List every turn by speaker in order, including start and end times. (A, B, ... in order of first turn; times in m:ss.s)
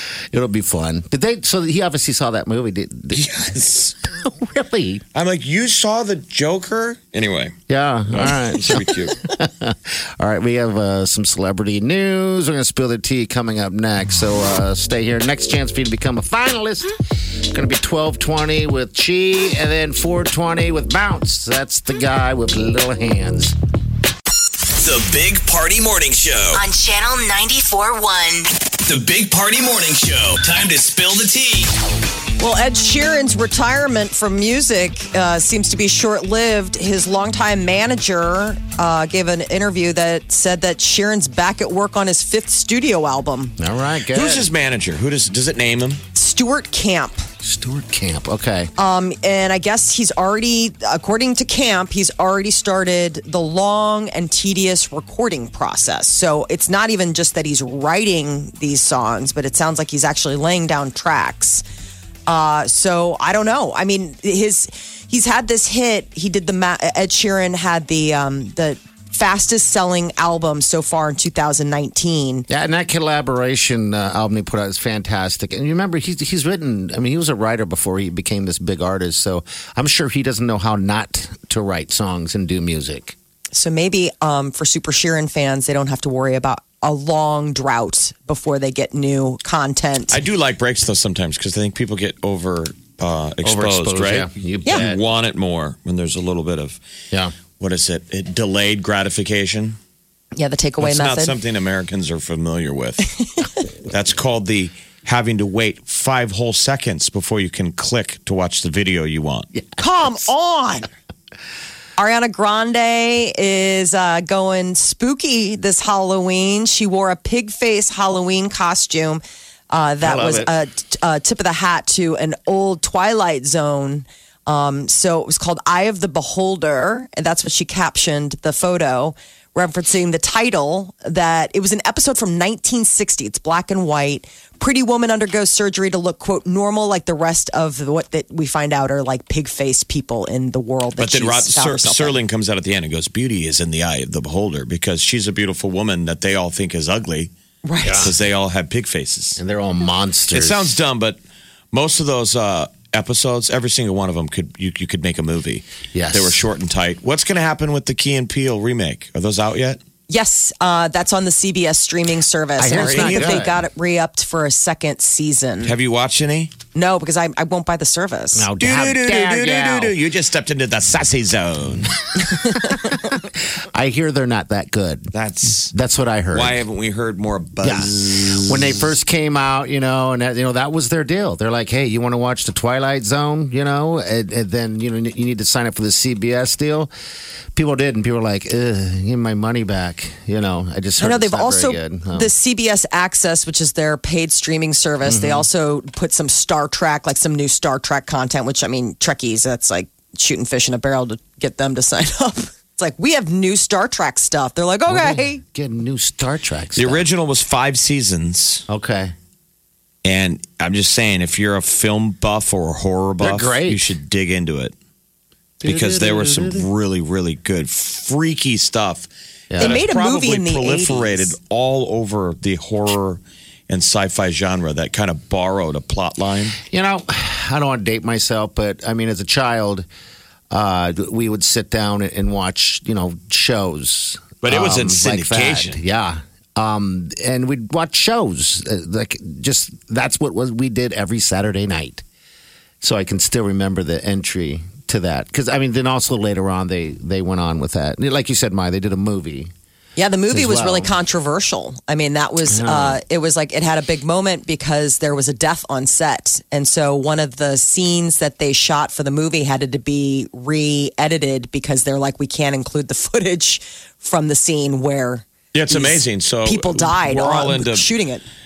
0:00.3-0:03.2 A
0:03.1-0:04.0 B
0:04.0-0:05.0 A
0:05.1-0:07.5 B
0:07.7-0:23.5 A
0:08.1-0:09.2 B
0:24.8-0:26.6 C
0:26.5-0:28.5 D
0:28.8-0:31.7 C
0:32.4-0:43.5 E
0:43.6-0:44.5 A
0:44.1-0:46.0 B
0:46.1-0:47.2 E
0:47.4-0:48.7 A
0:48.8-1:01.6 E
1:02.3-1:12.5 E
1:12.5-1:23.2 A
1:23.5-1:30.2 E
1:30.1-1:36.8 B
1:33.4-1:35.0 A
1:37.6-1:39.8 B
1:40.4-1:41.4 E
1:40.8-1:43.0 B
1:43.8-1:49.5 B
1:49.8-1:50.9 E
1:52.0-2:22.2 E
2:00.0-2:00.5 A
2:21.0-2:27.3 B
2:27.6-2:28.1 E
2:27.8-2:28.1 A
2:28.0-2:29.4 B
2:29.4-2:30.8 A
2:30.3-2:31.2 B
2:31.7-2:39.8 B
2:35.9-2:36.4 A
2:40.1-2:45.7 E
2:42.6-2:43.6 A
2:42.7-2:43.5 B
2:45.6-2:46.5 B
2:46.8-2:48.5 E
2:48.4-2:50.0 A
2:48.6-2:52.2 B
2:52.7-2:53.1 A
2:53.7-2:55.1 A
2:55.1-2:55.7 B
2:55.7-2:56.6 A
2:56.3-2:58.8 B
2:57.6-3:06.9 A
3:07.5-3:12.3 A
3:11.0-3:25.4 E
3:15.0-3:15.5 A
3:24.9-3:27.0 A
3:26.8-3:28.6 B
3:28.7-3:29.1 A
3:30.0-3:34.8 B
3:33.2-3:33.9 A
3:35.6-3:36.7 A
3:35.6-3:46.6 B
3:39.5-3:39.8 A
3:39.6-3:41.3 E
3:46.6-3:49.9 A
3:50.5-4:02.0 A
3:54.4-3:55.8 B
4:02.8-4:09.5 A
4:10.0-4:28.2 E
4:10.3-4:10.9 A
4:12.5-4:13.0 A
4:25.5-4:27.9 B